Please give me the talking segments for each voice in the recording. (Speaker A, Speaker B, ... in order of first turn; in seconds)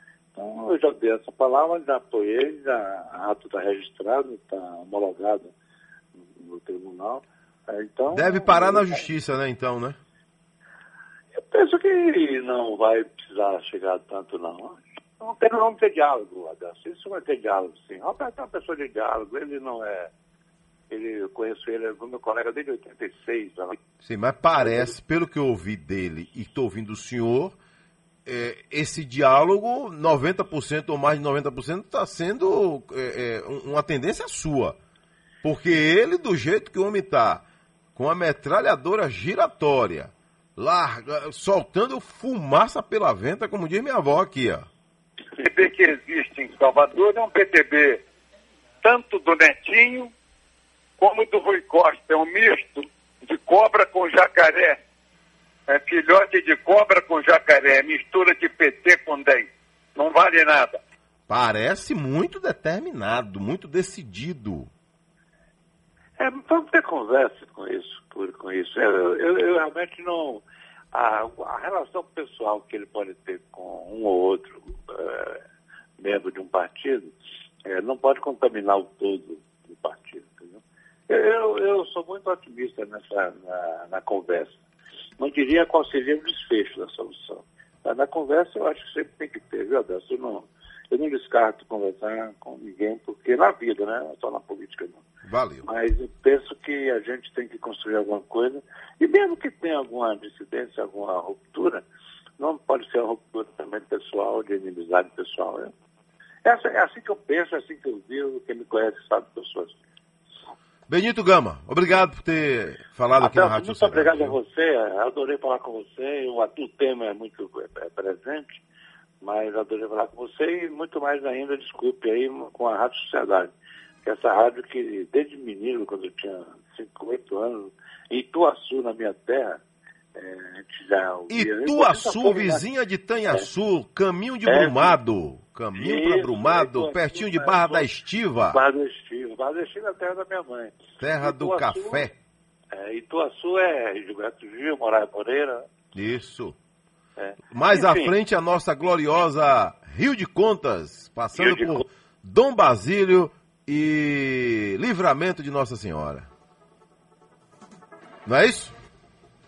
Speaker A: 0.3-5.5, 6.2-9.1, 11.3-20.1, 20.9-23.8, 24.6-24.9, 66.2-75.4, 76.0-77.1, 77.6-84.6, 85.2-95.0, 95.6-101.8, 102.4-105.7, 106.5-109.8, 113.2-118.6, 119.2-129.6, 130.1-132.6, 134.5-135.0, 135.8-137.9, 138.5-142.1, 142.7-145.7, 147.2-148.1, 151.3-151.8
Speaker B: 8.1-10.0, 24.0-27.6, 28.3-34.8, 35.4-37.5, 38.0-44.7, 61.3-64.7, 95.2-95.7, 110.9-114.4, 131.3-138.6, 141.0-142.1, 145.9-146.6, 147.5-156.3, 158.3-158.8
Speaker C: 45.4-48.0, 48.8-50.1, 51.0-54.8, 55.7-60.8